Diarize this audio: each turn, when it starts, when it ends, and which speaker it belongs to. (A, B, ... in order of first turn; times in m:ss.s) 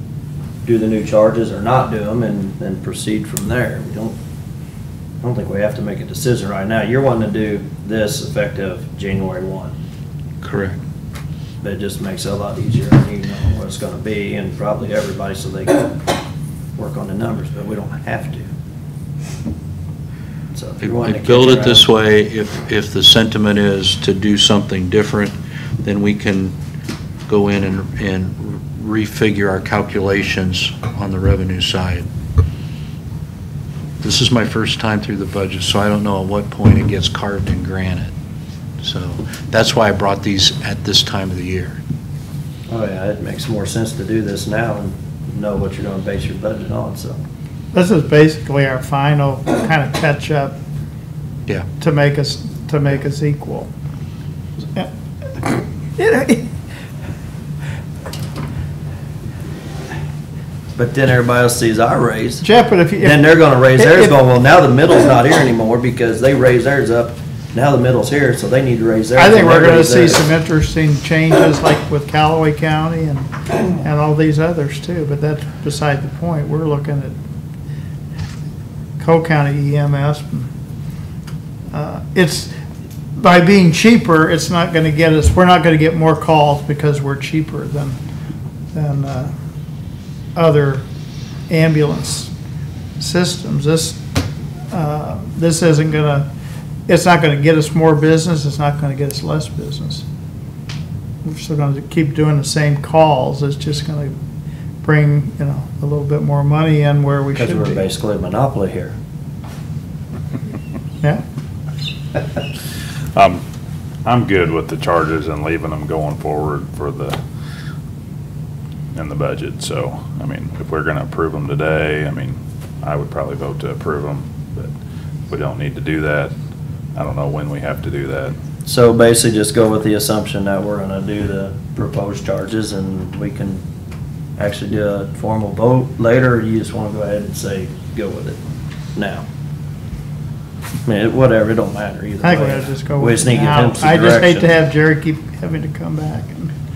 0:00.6-0:04.2 A
0:05.2-0:09.7 A
0:10.4-0:10.8 B
0:11.6-0:15.9 A
0:16.8-0:18.5 A
0:20.5-0:21.9 A
0:20.8-0:26.6 B
0:27.3-0:32.1 B
0:34.0-0:38.1 B
0:38.8-0:41.8 B
0:42.7-0:47.2 A
0:47.7-0:50.6 C
0:51.8-0:53.7 C
0:55.4-0:56.5 C
1:00.8-1:02.5 A
1:02.4-1:04.2 C
1:03.0-1:10.2 A
1:09.2-1:17.2 C
1:19.0-1:20.5 C
1:21.7-1:22.5 C
1:23.2-1:28.0 C
1:28.7-1:29.3 C
1:30.4-1:30.8 C
1:31.5-1:32.3 C
1:33.0-1:34.0 C
1:34.7-1:36.3 C
1:36.9-1:40.0 C
1:41.2-1:44.2 C
1:44.8-1:47.8 C
1:47.4-1:49.0 A
1:53.2-1:53.4 D
1:54.0-1:57.2 D
1:58.9-2:04.7 D
2:05.3-2:06.3 D
2:07.0-2:08.4 D
2:08.6-2:13.6 A
2:14.4-2:18.4 A
2:19.0-2:19.2 A
2:20.8-2:24.5 A
2:22.2-2:26.5 C